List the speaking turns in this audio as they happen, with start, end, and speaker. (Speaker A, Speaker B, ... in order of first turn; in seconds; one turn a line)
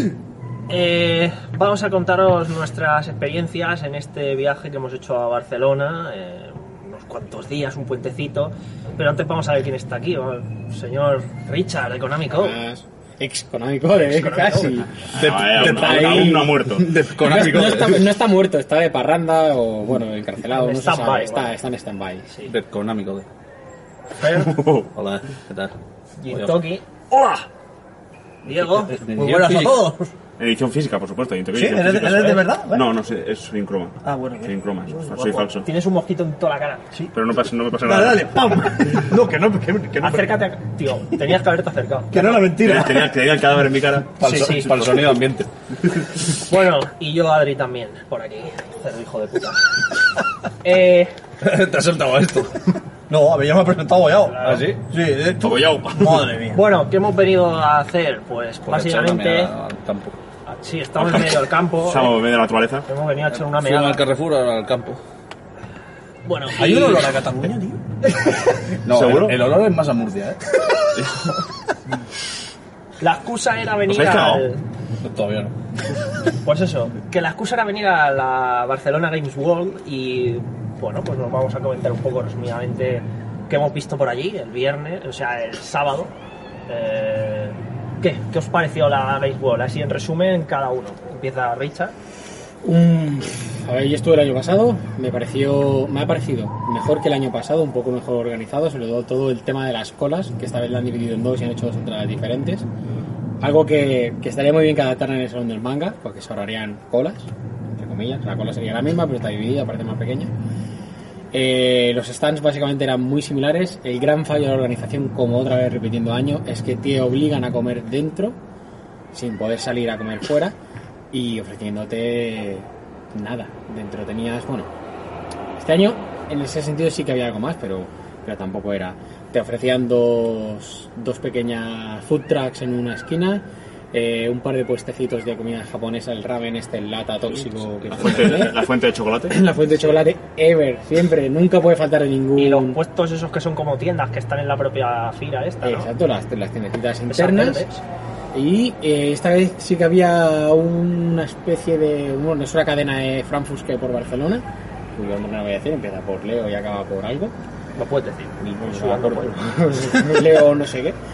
Speaker A: 0.7-12.6
Speaker B: 12.3-16.5
Speaker A: 13.9-14.9
Speaker C: 15.1-16.9
Speaker D: 15.1-18.1
Speaker B: 17.1-22.3
Speaker A: 20.5-21.6
Speaker D: 22.4-23.2
Speaker A: 24.2-24.5
Speaker C: 24.4-24.9
Speaker D: 24.6-25.8
Speaker A: 26.2-26.8
Speaker D: 26.3-26.6
Speaker E: 27.1-27.4
Speaker A: 28.4-29.0
Speaker E: 28.8-30.1
Speaker D: 29.0-29.9
Speaker C: 30.4-35.7
Speaker E: 31.5-32.9
Speaker E: 34.0-35.4
Speaker A: 35.6-36.8
Speaker C: 37.1-38.5
Speaker E: 37.8-40.4
Speaker A: 40.0-42.6
Speaker E: 42.1-43.1
Speaker C: 42.6-44.6
Speaker D: 44.2-46.1
Speaker E: 44.2-44.6
Speaker A: 44.2-44.9
Speaker A: 46.3-49.8
Speaker A: 50.6-51.2
Speaker D: 51.4-52.6
Speaker E: 53.1-56.6
Speaker D: 54.2-54.8
Speaker A: 54.2-54.7
Speaker C: 55.4-56.3
Speaker A: 56.5-59.5
Speaker D: 58.6-60.2
Speaker A: 60.5-62.2
Speaker C: 61.0-62.9
Speaker A: 62.9-64.0
Speaker D: 63.3-65.0
Speaker A: 66.2-67.1
Speaker E: 66.5-67.8
Speaker D: 68.8-70.4
Speaker C: 68.9-69.4
Speaker A: 73.0-74.6
Speaker C: 73.8-74.4
Speaker D: 75.0-75.5
Speaker A: 76.4-86.1
Speaker A: 86.7-91.9
Speaker B: 92.6-102.7
Speaker B: 103.4-110.3
Speaker B: 111.3-118.4
Speaker B: 119.1-120.5
Speaker B: 121.1-124.7
Speaker B: 125.5-138.7
Speaker C: 137.9-139.4
Speaker B: 139.3-142.8
Speaker A: 142.3-145.9
Speaker B: 145.6-147.7
Speaker A: 147.1-147.8
Speaker B: 148.3-157.3
Speaker A: 157.8-159.4
Speaker B: 158.4-161.0